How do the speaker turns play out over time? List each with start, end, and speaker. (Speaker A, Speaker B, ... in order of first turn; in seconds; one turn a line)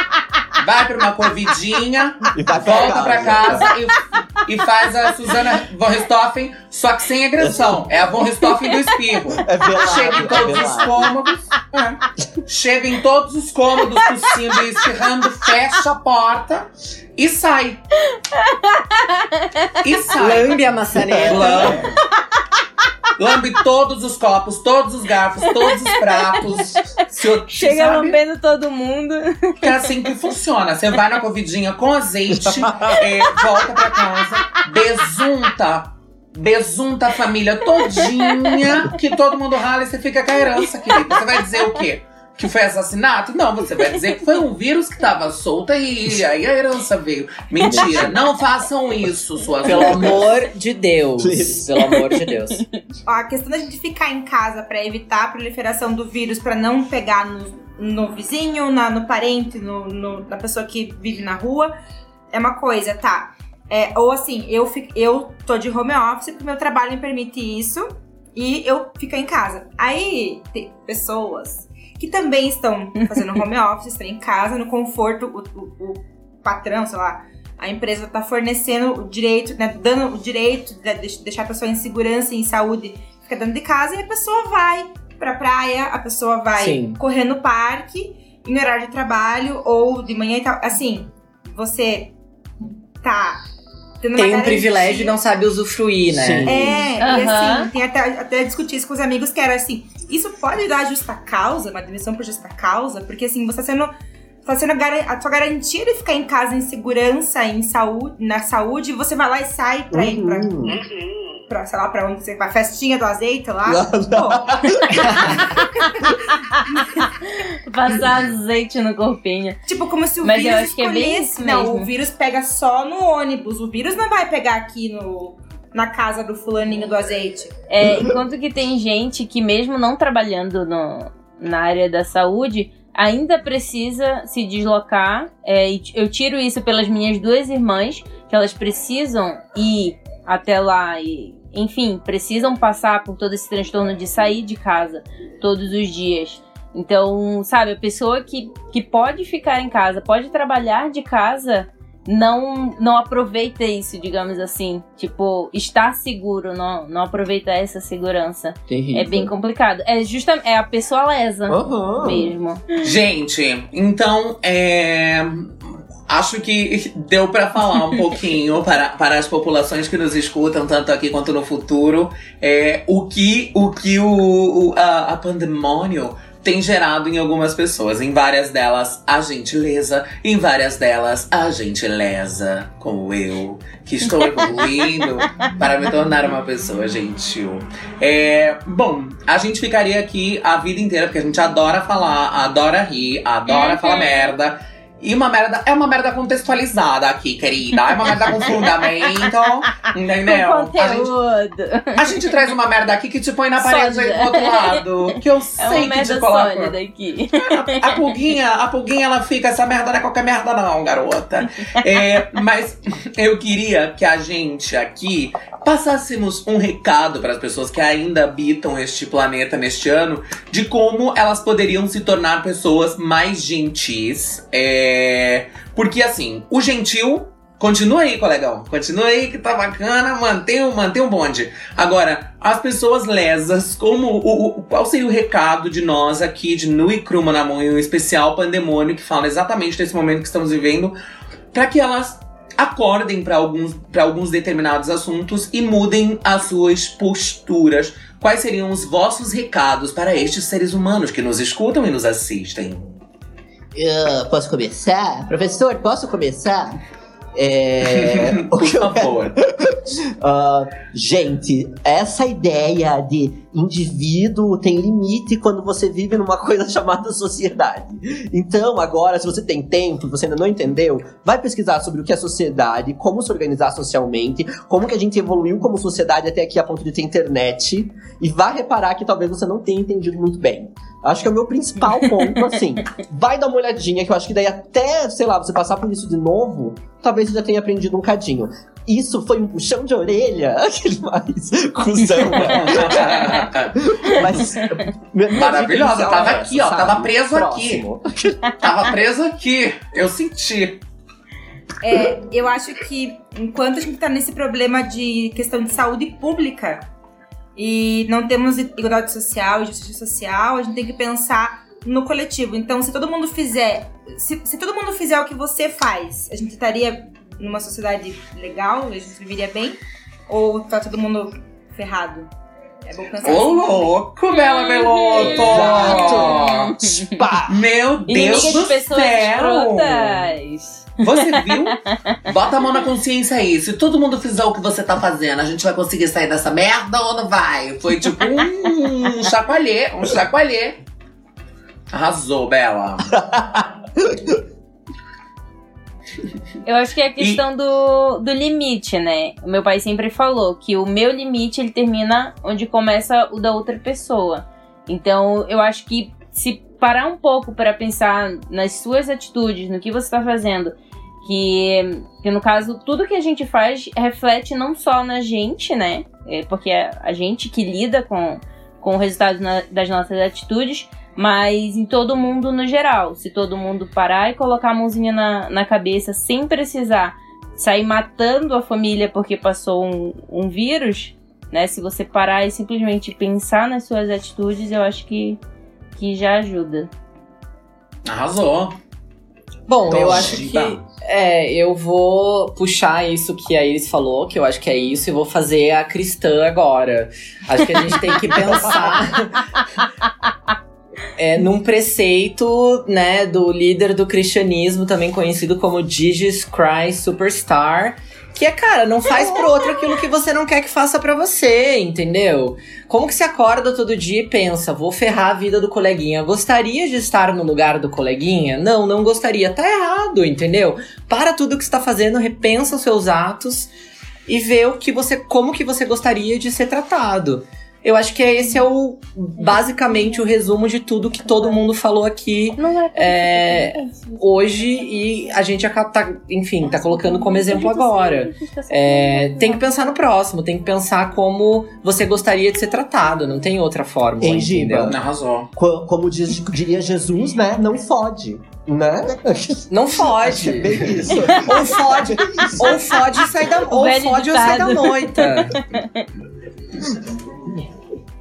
Speaker A: 0.6-17.8
Speaker B: 2.3-3.7
Speaker B: 7.4-7.9
Speaker B: 9.4-11.1
Speaker C: 18.1-19.7
Speaker A: 19.8-20.6
Speaker D: 20.2-21.8
Speaker A: 21.1-22.0
Speaker A: 23.2-28.2
Speaker C: 25.5-27.0
Speaker C: 27.5-29.6
Speaker A: 29.6-50.3
Speaker C: 37.8-38.5
Speaker B: 47.6-48.1
Speaker D: 49.6-52.6
Speaker B: 51.2-51.8
Speaker E: 53.1-61.7
Speaker E: 62.3-92.2
Speaker D: 86.6-87.0
Speaker E: 93.0-93.4
Speaker E: 94.0-95.2
Speaker D: 94.2-96.8
Speaker B: 96.1-96.9
Speaker E: 96.5-103.9
Speaker C: 97.0-97.7
Speaker E: 104.5-110.7
Speaker B: 109.9-110.8
Speaker E: 111.5-117.1
Speaker B: 113.7-115.5
Speaker D: 115.0-115.4
Speaker C: 117.3-119.6
Speaker E: 119.7-127.6
Speaker C: 120.2-121.9
Speaker C: 127.7-162.8
Speaker B: 158.7-159.3
Speaker B: 161.5-162.3
Speaker A: 162.8-201.1
Speaker C: 193.5-194.3
Speaker C: 197.9-198.7
Speaker C: 200.3-202.4
Speaker A: 202.0-206.8
Speaker C: 203.6-204.8
Speaker C: 205.6-208.1
Speaker A: 207.4-240.9
Speaker A: 241.5-252.9
Speaker B: 253.8-256.8
Speaker B: 257.4-298.4
Speaker A: 257.9-259.4
Speaker A: 292.4-294.3
Speaker A: 295.3-297.9
Speaker A: 298.6-300.8
Speaker E: 301.8-306.9
Speaker E: 307.6-322.3
Speaker E: 322.9-323.9
Speaker A: 323.2-326.8
Speaker C: 324.3-327.2
Speaker B: 325.4-327.6
Speaker A: 327.5-330.3
Speaker C: 328.1-332.2
Speaker B: 328.3-328.7
Speaker A: 331.0-340.8
Speaker A: 341.9-343.2
Speaker B: 343.1-344.4
Speaker C: 346.6-385.4
Speaker C: 386.0-386.9
Speaker A: 388.1-388.8
Speaker D: 389.7-399.5
Speaker B: 389.9-390.4
Speaker A: 389.9-390.8
Speaker D: 401.2-423.7
Speaker D: 424.3-445.0
Speaker C: 429.4-430.2
Speaker C: 432.6-434.6
Speaker C: 436.6-439.7
Speaker B: 444.2-445.0
Speaker A: 444.9-445.5
Speaker B: 445.6-453.2
Speaker D: 449.7-455.6
Speaker C: 453.7-456.1
Speaker B: 456.9-457.5